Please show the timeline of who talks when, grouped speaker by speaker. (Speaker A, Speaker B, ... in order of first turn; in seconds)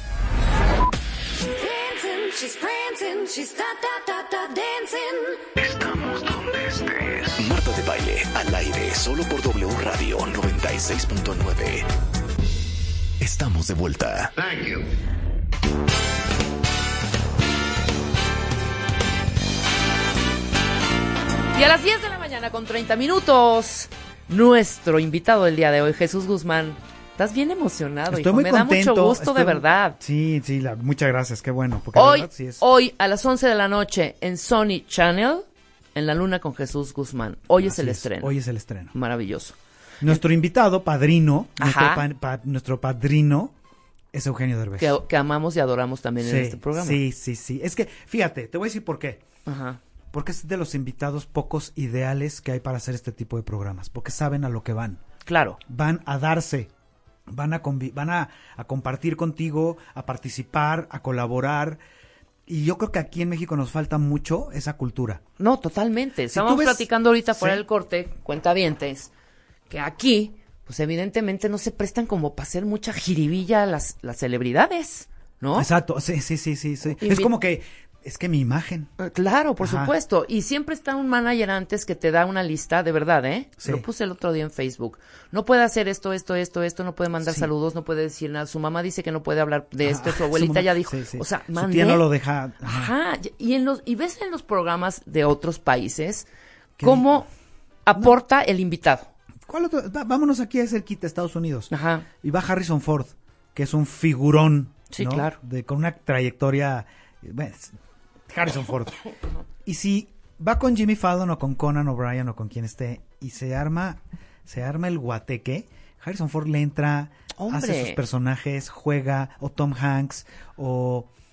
Speaker A: 1.6-5.4
Speaker B: 5.6-11.9, 13.2-14.8
Speaker C: 21.5-30.0, 31.9-38.3, 38.9-39.6, 41.6-42.0, 44.8-47.0, 49.5-49.8, 55.3-55.6, 65.4-69.1, 69.7-75.7, 76.9-77.3, 79.0-92.1, 92.6-96.3, 96.8-97.3, 97.9-99.1, 101.7-102.1, 104.9-105.4, 117.4-118.0
Speaker D: 28.1-32.6, 37.6-38.9, 40.0-43.5, 44.1-45.0, 46.2-49.2, 50.1-55.0, 55.7-56.7, 57.3-61.8, 62.5-65.2, 66.3-67.6, 75.5-78.9, 79.6-79.9, 87.2-87.5, 89.8-92.9, 96.8-97.2, 99.5-107.8, 108.3-109.0, 109.7-121.1